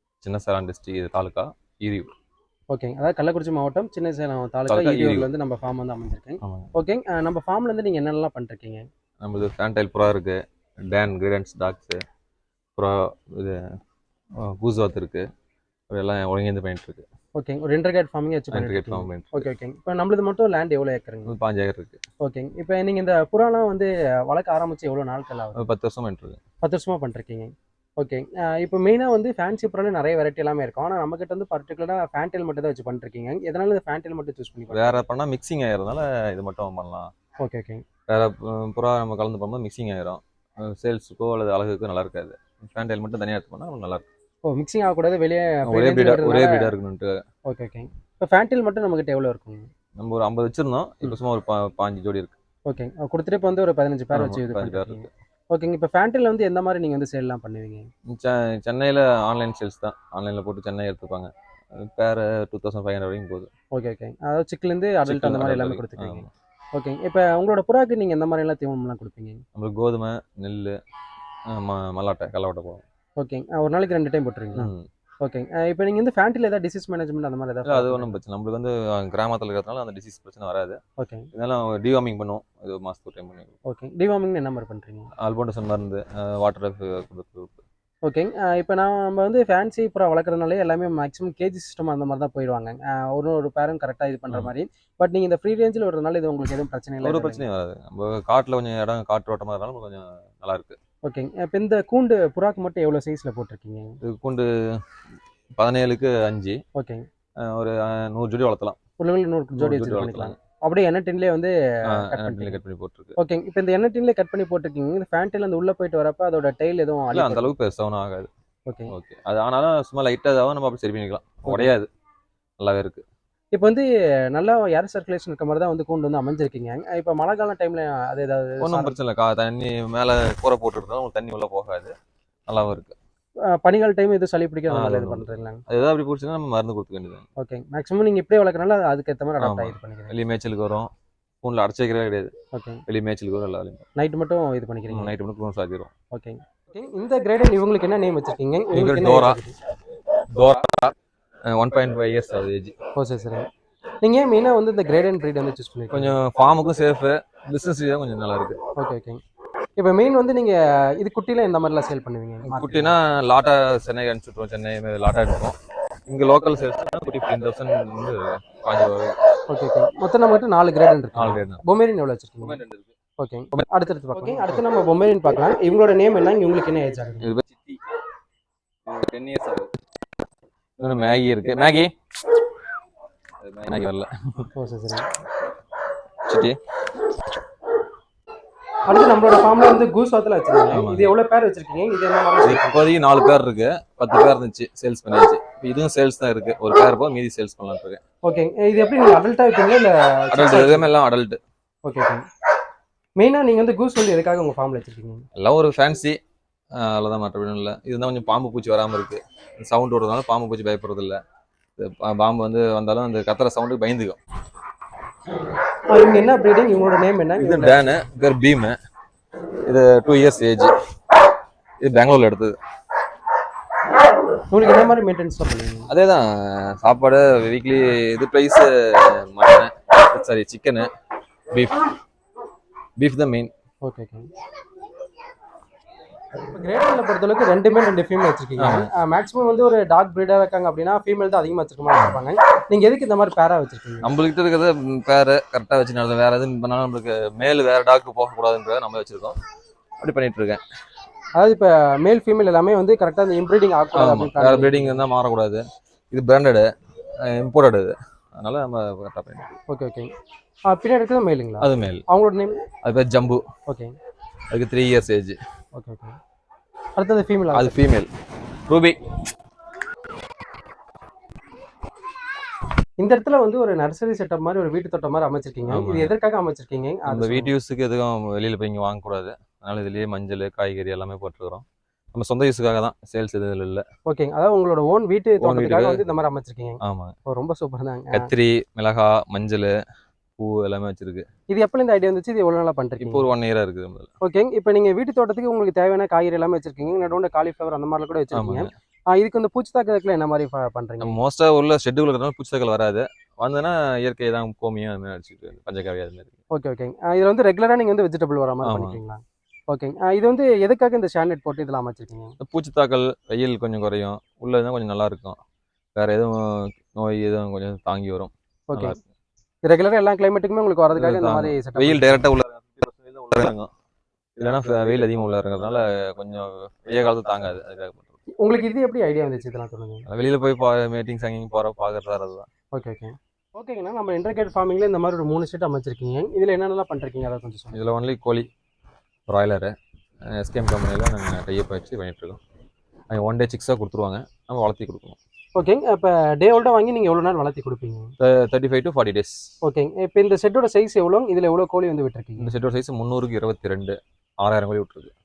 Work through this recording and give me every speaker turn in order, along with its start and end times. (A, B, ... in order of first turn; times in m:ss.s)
0:00.2-0:02.1 A
0:02.7-0:08.9 B
0:04.7-0:05.3 A
0:06.4-0:06.7 A
0:09.2-0:12.0 A
0:12.8-0:13.7 A
0:14.4-0:15.3 A
0:15.9-0:17.1 A
0:17.4-0:21.3 B
0:18.5-0:19.5 A
0:21.3-0:22.0 A
0:22.2-0:25.7 B
0:25.6-0:26.4 A
0:26.6-0:35.0 B
0:34.7-0:37.1 A
0:37.4-0:37.8 B
0:38.1-0:44.0 A
0:44.5-0:46.7 B
0:45.7-0:47.2 A
0:47.5-0:49.7 B
0:50.0-0:52.4 A
0:52.7-0:57.9 B
0:54.1-0:55.1 A
0:58.1-1:03.5 A
1:03.7-1:09.4 B
1:05.0-1:06.3 A
1:09.6-1:10.8 A
1:11.5-1:12.8 A
1:13.2-1:14.7 B
1:14.6-1:14.9 A
1:15.2-1:18.2 B
1:17.7-1:20.8 A
1:21.0-1:21.3 B
1:21.3-1:23.5 A
1:23.7-1:25.1 B
1:25.2-1:27.6 A
1:28.0-1:37.4 B
1:37.0-1:40.8 A
1:41.0-1:44.0 B
1:44.0-1:44.8 A
1:45.6-1:46.6 A
1:46.8-1:47.1 B
1:47.4-1:48.8 A
1:49.0-1:52.6 B
1:49.6-1:50.4 A
1:51.9-1:53.2 A
1:53.2-1:57.5 B
1:57.1-1:58.3 A
1:58.7-1:58.9 B
1:58.9-2:01.9 A
2:01.5-2:01.7 B
2:02.6-2:03.0 A
2:03.5-2:09.0 B
2:08.6-2:11.9 A
2:12.5-2:13.0 A
2:13.5-2:15.6 B
2:14.7-2:17.2 A
2:17.4-2:20.2 B
2:19.4-2:20.9 A
2:21.4-2:22.3 A
2:22.5-2:22.8 B
2:22.9-2:23.8 A
2:24.0-2:25.1 B
2:24.9-2:25.9 A
2:26.1-2:29.6 B
2:28.7-2:29.4 A
2:30.3-2:30.9 A
2:31.5-2:32.8 A
2:33.0-2:33.5 B
2:34.0-2:36.2 B
2:35.9-2:38.6 A
2:38.8-2:39.2 B
2:39.8-2:42.9 B
2:42.5-2:45.6 A
2:46.1-2:49.2 A
2:49.5-2:52.6 B
2:51.1-2:51.6 A
2:52.4-2:52.9 A
2:53.2-2:57.3 B
2:57.2-2:57.8 A
2:58.9-2:59.7 A
3:00.8-3:01.9 A
3:03.4-3:04.5 A
3:04.6-3:05.1 B
3:06.3-3:06.6 A
3:08.9-3:12.9 B
3:10.7-3:11.1 A
3:12.4-3:18.0 A
3:18.2-3:20.9 B
3:20.3-3:21.4 A
3:21.8-3:22.3 B
3:23.2-3:25.2 B
3:25.4-3:26.2 A
3:26.8-3:31.2 A
3:31.8-3:34.2 A
3:35.9-3:37.9 B
3:37.4-3:38.8 A
3:39.6-3:40.7 A
3:41.8-3:42.6 A
3:44.5-3:45.9 B
3:45.9-3:50.9 A
3:51.5-3:51.8 A
3:53.0-3:53.5 A
3:53.8-3:54.3 B
3:56.5-4:04.1 B
3:58.6-3:58.9 A
4:01.9-4:02.2 A
4:04.0-4:09.4 A
4:10.0-4:10.6 A
4:11.4-4:15.0 B
4:13.9-4:16.7 A
4:17.2-4:19.6 A
4:19.7-4:20.1 B
4:20.7-4:22.6 B
4:21.6-4:22.0 A
4:22.8-4:23.4 A
4:23.7-4:24.0 B
4:24.5-4:25.4 A
4:25.8-4:26.2 B
4:27.0-4:27.8 B
4:27.5-4:28.1 A
4:28.7-4:29.2 A
4:33.0-4:37.5 B
4:35.7-4:36.1 A
4:37.1-4:43.8 A
4:44.1-4:48.3 B
4:45.4-4:46.0 A
4:46.8-4:47.2 A
4:48.1-4:49.7 A
4:50.4-4:51.3 A
4:51.5-4:53.3 B
4:53.0-4:54.1 A
4:54.2-5:01.2 B
4:58.3-4:58.7 A
5:01.0-5:06.4 A
5:06.5-5:12.4 B
5:08.6-5:09.0 A
5:12.4-5:15.4 A
5:16.0-5:19.0 A
5:18.7-5:19.0 B
5:19.6-5:22.3 B
5:21.0-5:23.7 A
5:24.4-5:28.2 A
5:28.4-5:30.0 B
5:30.1-5:32.5 A
5:32.7-5:37.8 B
5:37.7-5:38.5 A
5:39.3-5:39.7 A
5:40.3-5:42.4 A
5:43.1-5:45.2 A
5:45.6-5:48.1 B
5:48.2-5:49.5 A
5:49.6-5:52.5 B
5:52.4-5:55.1 A